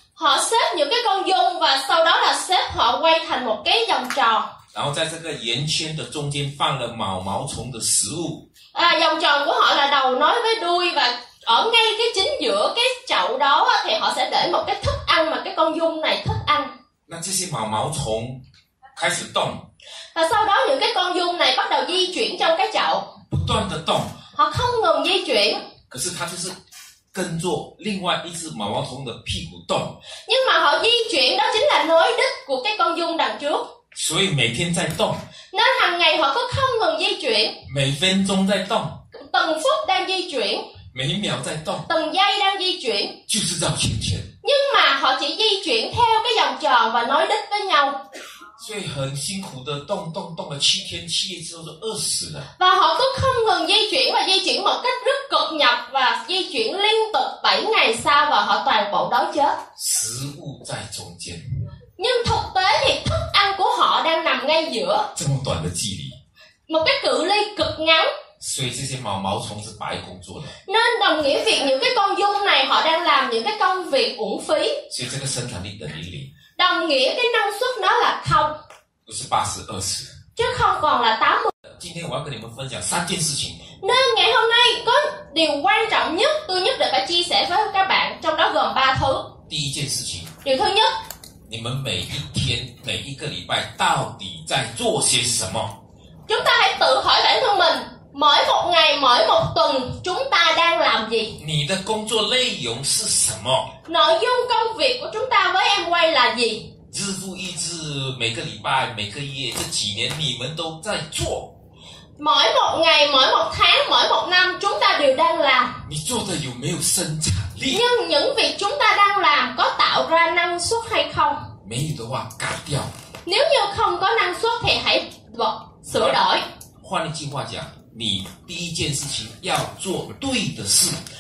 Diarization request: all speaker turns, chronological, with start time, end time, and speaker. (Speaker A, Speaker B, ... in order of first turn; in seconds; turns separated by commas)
Speaker A: 0.1-4.5, Speaker B: 4.7-8.5, Speaker A: 8.7-16.7, Speaker B: 17.1-18.4, Speaker B: 18.9-19.6, Speaker A: 20.1-23.1, Speaker B: 23.3-24.2, Speaker A: 24.3-25.6, Speaker B: 25.9-26.6, Speaker B: 27.1-30.0, Speaker A: 30.3-33.6, Speaker B: 33.9-35.2, Speaker A: 35.5-37.6, Speaker B: 37.6-39.0, Speaker A: 39.1-40.6, Speaker B: 40.9-41.9, Speaker A: 41.9-43.2, Speaker B: 43.3-44.3, Speaker A: 44.4-48.0, Speaker B: 48.6-52.5, Speaker A: 52.6-59.6, Speaker B: 59.8-61.4, Speaker A: 62.0-65.1, Speaker B: 65.2-66.2, Speaker A: 66.7-68.1, Speaker B: 68.4-70.5, Speaker A: 70.7-74.8, Speaker B: 74.9-76.3, Speaker A: 76.6-78.6, Speaker B: 79.1-80.1, Speaker A: 80.4-81.5, Speaker B: 81.7-83.6, Speaker A: 83.8-89.3, Speaker B: 89.5-90.3, Speaker A: 90.4-90.9, Speaker B: 91.5-95.8, Speaker A: 96.3-101.4, Speaker B: 101.4-103.7, Speaker A: 103.9-106.7, Speaker B: 106.9-111.5, Speaker A: 112.2-115.8, Speaker B: 115.8-117.9, Speaker A: 117.7-121.5, Speaker B: 121.6-122.9, Speaker A: 123.2-126.5, Speaker B: 126.8-131.0